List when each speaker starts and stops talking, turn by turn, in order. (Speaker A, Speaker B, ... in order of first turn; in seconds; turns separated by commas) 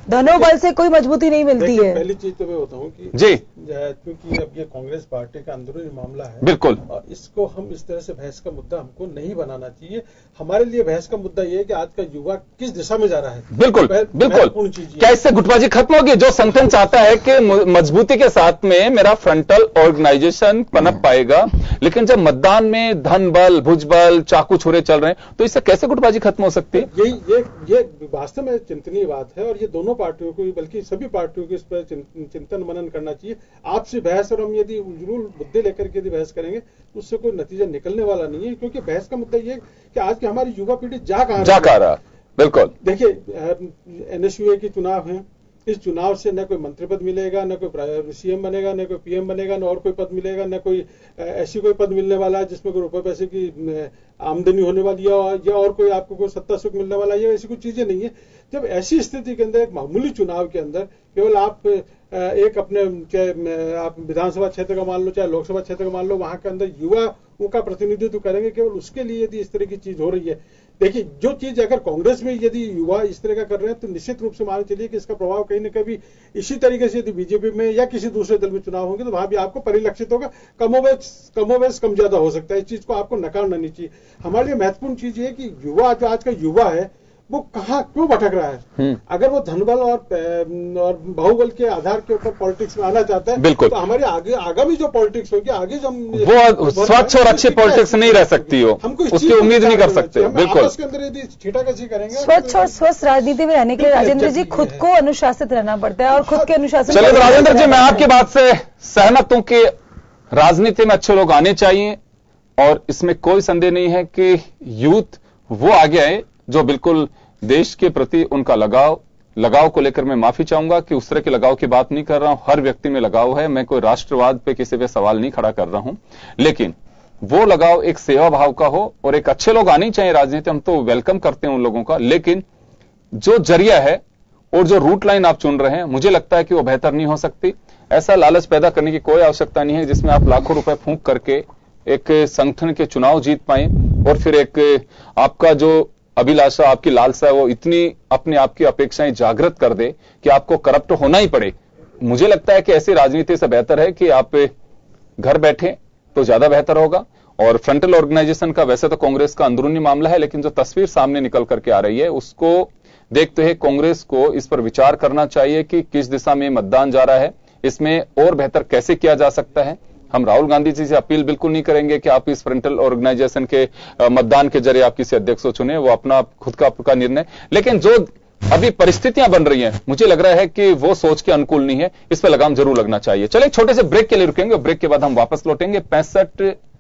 Speaker A: 0.1-2.0, Speaker B: 0.3-0.5, Speaker B: 1.6-15.1, Speaker C: 3.1-3.4, Speaker C: 6.4-6.8, Speaker C: 13.5-26.9, Speaker B: 26.7-41.8, Speaker C: 41.4-42.7, Speaker B: 42.8-102.7, Speaker C: 93.4-93.8, Speaker C: 96.1-100.7, Speaker A: 102.1-108.1, Speaker B: 103.8-104.9, Speaker B: 106.1-107.9, Speaker C: 106.9-109.7, Speaker C: 110.3-112.0, Speaker C: 112.6-132.4, Speaker C: 133.2-134.0, Speaker C: 134.5-154.5, Speaker C: 155.2-186.6